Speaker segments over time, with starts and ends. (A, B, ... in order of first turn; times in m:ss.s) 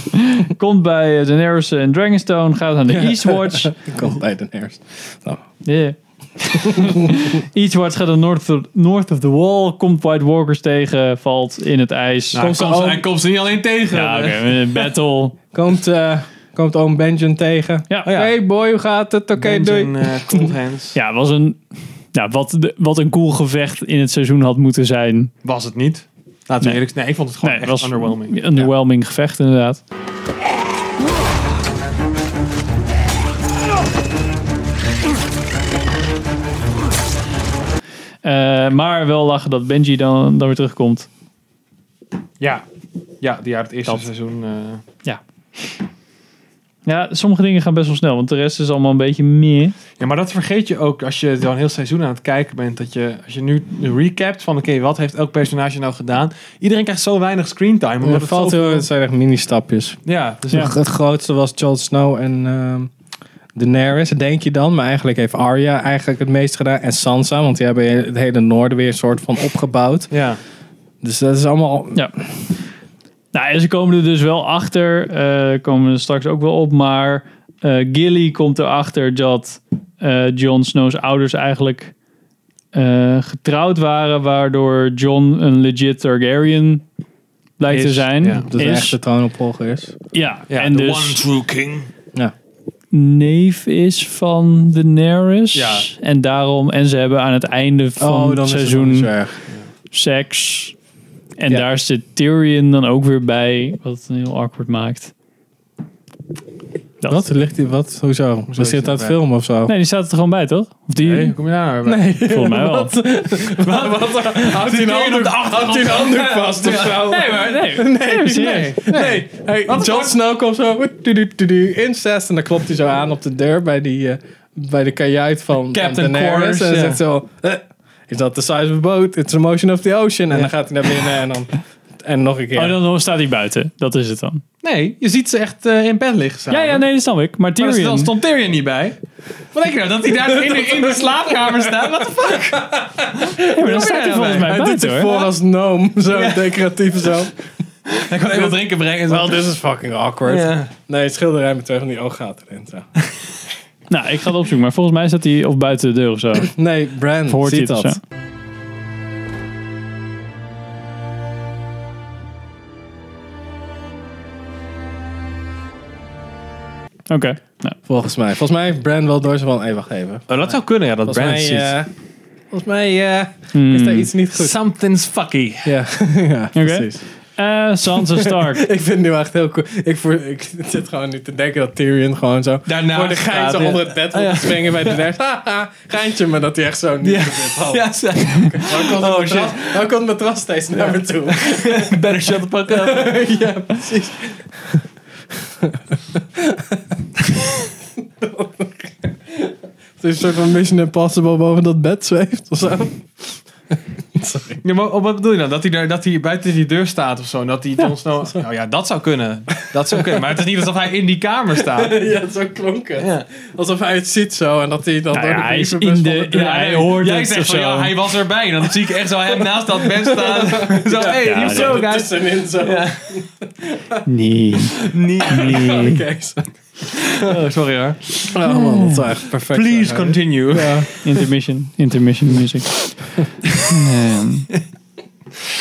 0:00.1-0:03.8 A
0:02.9-0:05.4 B
0:05.6-0:13.0 A
0:06.6-0:07.2 B
0:12.3-0:14.8 C
0:12.3-0:13.0 B
0:13.9-0:15.4 A
0:15.5-0:20.5 B
0:18.0-0:18.3 C
0:19.4-0:21.0 C
0:20.9-0:25.3 A
0:25.4-0:28.5 C
0:27.4-0:29.8 A
0:38.2-0:41.1 A
0:42.4-0:42.6 C
0:43.2-0:44.8 C
0:46.8-0:49.8 A
0:50.0-0:58.8 C
0:58.0-1:02.9 B
1:00.0-1:00.7 C
1:03.5-1:10.1 B
1:10.1-1:10.4 C
1:11.0-1:12.3 B
1:13.3-1:21.9 A
1:22.7-1:26.8 A
1:27.6-1:29.0 A
1:27.7-1:28.5 C
1:28.5-1:30.0 B
1:30.1-1:31.2 A
1:30.5-1:31.9 C
1:32.9-1:39.1 A
1:35.5-1:35.9 C
1:38.0-1:39.4 B
1:39.9-1:40.7 A
1:41.4-1:45.1 A
1:47.1-1:49.7 B
1:48.5-1:49.2 C
1:49.7-1:51.3 A
1:51.0-1:52.0 C
1:51.8-2:12.8 B
1:52.2-1:53.0 A
1:53.6-1:57.3 C
1:57.0-1:58.9 A
1:58.3-2:00.1 C
2:05.7-2:07.0 C
2:12.5-2:14.4 A
2:14.6-2:16.8 C
2:16.5-2:18.1 A
2:17.6-2:19.0 C
2:19.5-2:25.3 C
2:20.0-2:27.3 B
2:23.4-2:25.1 A
2:26.1-2:26.6 C
2:27.8-2:29.5 C
2:28.3-2:28.6 B
2:29.1-2:32.9 B
2:30.2-2:30.7 C
2:33.9-2:36.5 A
2:36.4-2:38.0 B
2:37.3-2:38.0 A
2:47.1-2:47.8 A
2:47.8-2:50.5 B
2:50.3-2:51.8 C
2:51.0-2:51.9 B
2:52.5-2:54.6 B
2:53.5-2:54.1 A
2:54.3-2:55.8 C
2:55.6-2:57.0 B
2:56.5-2:58.6 A
2:58.0-3:14.9 B
3:02.7-3:05.0 C
3:07.0-3:09.8 C
3:10.7-3:13.2 C
3:15.4-3:16.9 B
3:18.0-3:24.6 B
3:24.6-3:32.0 C
3:29.9-3:30.4 B
3:31.6-3:36.4 B
3:33.0-3:33.2 C
3:35.1-3:37.9 A
3:36.3-3:43.2 C
3:39.5-3:44.0 B
3:41.2-3:41.8 A
3:44.0-3:46.0 A
3:44.9-3:45.9 C
3:45.2-3:46.5 B
3:46.9-3:48.4 C
3:48.2-3:50.9 B
3:48.5-3:49.0 A
3:49.3-3:51.0 C
3:51.0-3:53.0 A
3:53.6-3:54.5 A